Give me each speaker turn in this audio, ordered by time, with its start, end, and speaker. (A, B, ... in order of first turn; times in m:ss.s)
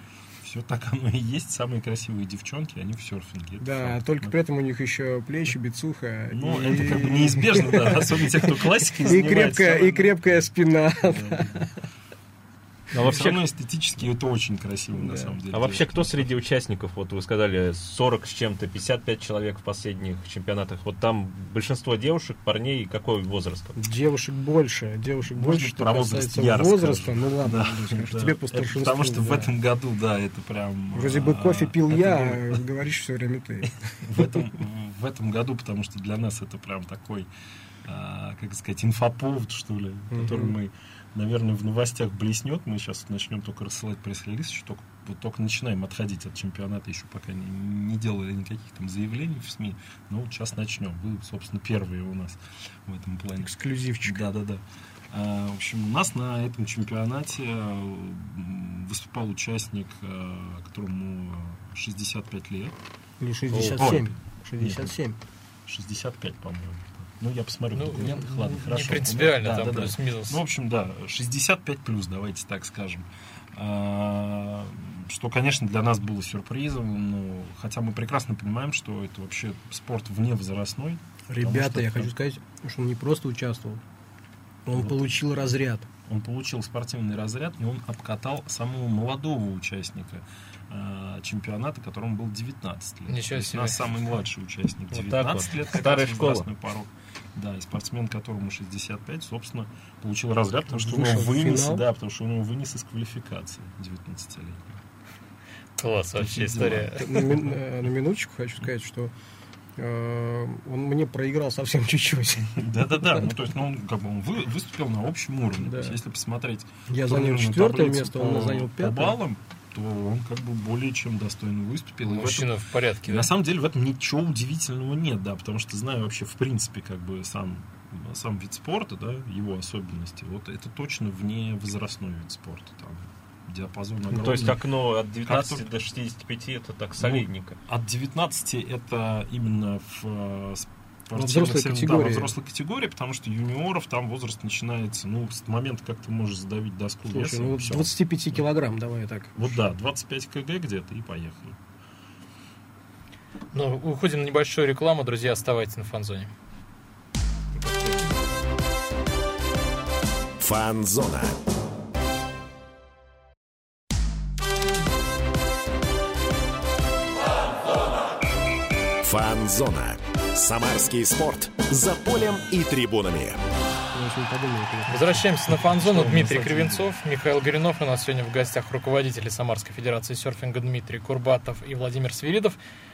0:00.4-0:04.3 A
0:03.6-0:11.7 B
0:06.3-0:10.5 A
0:11.0-0:11.7 A
0:12.9-0:13.4 C
0:13.0-0:16.3 A
0:15.0-0:15.4 B
0:15.5-0:23.8 C
0:23.8-0:29.5 B
0:25.3-0:32.6 A
0:30.9-0:34.4 B
0:34.0-0:37.3 A
0:37.8-0:53.5 A
0:40.1-0:40.6 B
0:53.4-0:54.2 B
0:54.0-1:02.8 A
1:03.2-1:05.2 B
1:03.5-1:03.8 C
1:03.6-1:04.9 A
1:05.7-1:22.1 A
1:07.7-1:10.4 D
1:21.3-1:23.8 B
1:24.7-1:25.9 B
1:24.7-1:25.5 A
1:26.1-1:44.8 A
1:33.1-1:34.0 D
1:34.9-1:36.5 C
1:40.7-1:41.8 B
1:45.8-1:47.1 D
1:46.2-1:47.5 A
1:46.7-1:49.1 B
1:49.8-1:53.2 B
1:52.4-2:02.5 A
1:55.6-1:56.0 B
1:56.9-1:59.2 B
2:02.1-2:03.3 D
2:03.0-2:14.6 A
2:14.1-2:14.5 B
2:14.1-2:17.6 C
2:15.2-2:15.6 A
2:17.0-2:27.9 A
2:21.1-2:22.3 B
2:27.1-2:29.6 B
2:29.4-2:31.6 A
2:33.5-2:36.3 D
2:37.5-2:38.2 A
2:40.4-2:41.3 E
2:49.0-2:53.4 E
2:53.9-2:55.3 B
2:54.9-3:02.6 D
2:55.6-2:56.9 A